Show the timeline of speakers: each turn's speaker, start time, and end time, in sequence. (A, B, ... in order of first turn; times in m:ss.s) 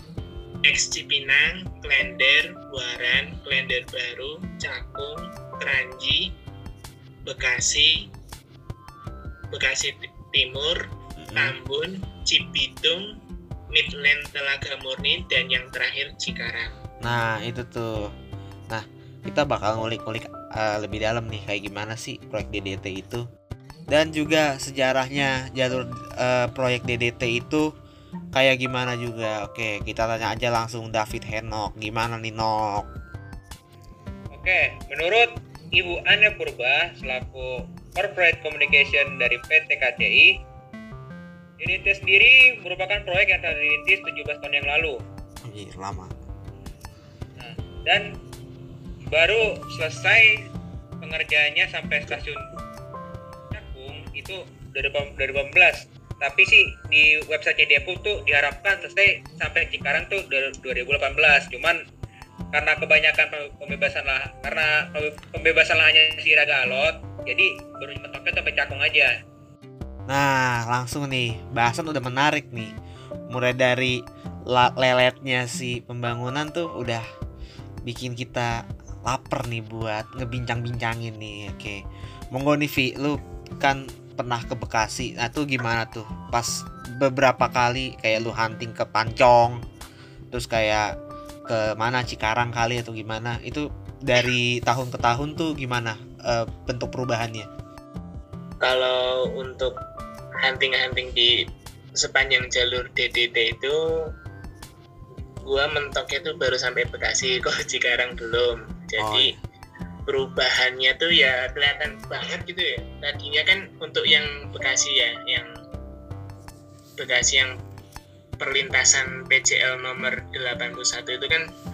0:00.6-0:06.3 A
0:07.3-0:08.1 A
0:09.5-0:10.8 A
0:11.2-0:11.6 B
0:11.4-0:13.1 A
0:13.7-0:16.8 A
0:17.0-0:18.1 B
0:18.7-0:23.2 B
0:23.9-0:27.7 B
0:28.4-0:32.9 B
0:34.3-0:40.3 C
0:41.6-0:45.0 C
0:45.4-0:46.1 B
0:47.4-0:48.1 C
0:49.1-0:50.5 C
0:51.0-0:52.5 C
0:53.5-1:01.8 C
1:02.5-1:09.1 C
1:10.1-1:12.7 B
1:13.3-1:17.0 B
1:17.8-1:21.8 B
1:22.3-1:29.6 B
1:30.3-1:30.9 B
1:31.5-1:37.5 B
1:38.6-1:39.8 A
1:40.4-1:41.4 A
1:42.0-1:43.8 A
1:45.5-1:49.3 A
1:49.0-1:49.4 B
1:50.1-1:55.5 A
1:57.0-1:57.6 A
1:58.4-2:01.5 A